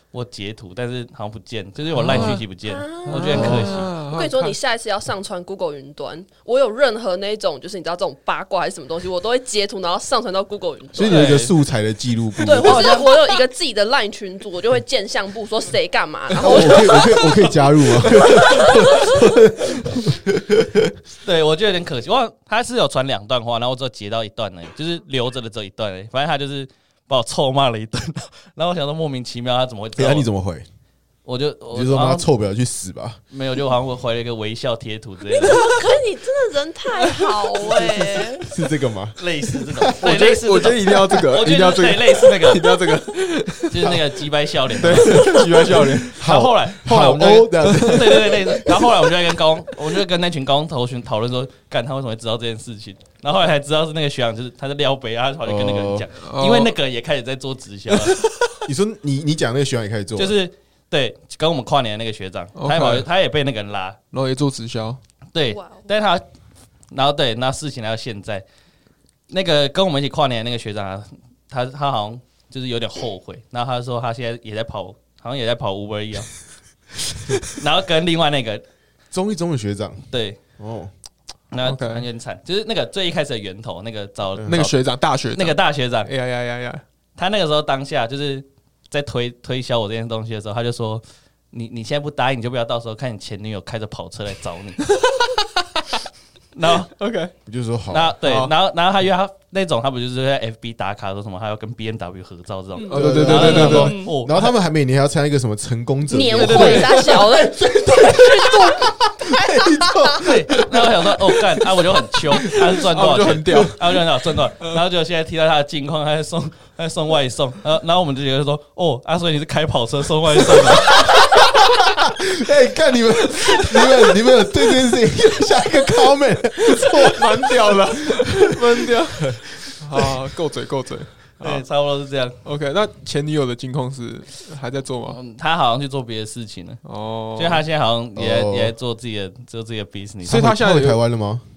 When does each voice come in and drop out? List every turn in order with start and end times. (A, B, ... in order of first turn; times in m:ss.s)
0:00.1-0:03.9 A
0:01.9-0:02.5 B
0:02.7-0:11.3 C
0:03.0-0:04.6 B
0:03.3-0:03.7 D
0:10.9-0:12.9 D
0:11.0-0:11.5 A
0:12.4-0:19.2 C
0:12.6-0:13.0 A
0:16.4-0:21.0 D
0:21.2-0:30.3 A
0:30.0-0:30.6 D
0:31.2-0:32.3 A
0:31.7-0:33.2 D
0:33.3-0:35.8 A
0:35.4-0:38.5 C
0:37.0-0:37.8 B
0:38.5-0:40.1 D
0:39.2-0:42.8 A
0:40.0-0:44.0 B
0:43.7-0:45.5 A
0:44.8-0:46.2 B
0:44.9-0:45.4 D
0:46.1-0:58.2 A
0:46.1-0:48.5 D
0:47.6-0:48.0 B
0:55.4-0:56.1 D
0:56.2-0:56.8 B
0:57.9-0:58.6 B
0:58.7-1:00.4 D
1:00.2-1:04.0 A
1:02.6-1:03.1 B
1:04.1-1:05.0 B
1:05.3-1:06.2 A
1:05.5-1:05.9 C
1:06.9-1:08.4 A
1:09.3-1:16.4 A
1:17.4-1:18.6 A
1:19.1-1:20.0 D
1:20.1-1:20.4 A
1:20.6-1:20.9 D
1:21.5-1:26.1 A
1:21.6-1:22.1 B
1:24.4-1:24.6 D
1:24.5-1:26.8 B
1:27.2-1:34.9 A
1:35.0-1:35.8 B
1:36.5-1:37.0 A
1:37.0-1:37.3 B
1:37.5-1:38.2 D
1:37.9-1:44.5 A
1:38.2-1:38.5 B
1:42.8-1:44.2 C
1:42.9-1:44.0 B
1:42.9-1:51.6 D
1:46.1-1:50.2 C
1:46.4-1:47.2 B
1:46.4-1:46.9 A
1:50.2-2:01.2 A
1:52.8-1:53.8 B
2:00.6-2:08.2 D
2:06.8-2:11.6 B
2:09.2-2:09.8 D
2:11.4-2:12.4 A
2:12.4-2:15.2 B
2:15.1-2:16.8 A
2:16.8-2:17.6 B
2:17.4-2:20.5 A
2:18.2-2:18.7 D
2:20.2-2:21.4 D
2:20.3-2:21.0 B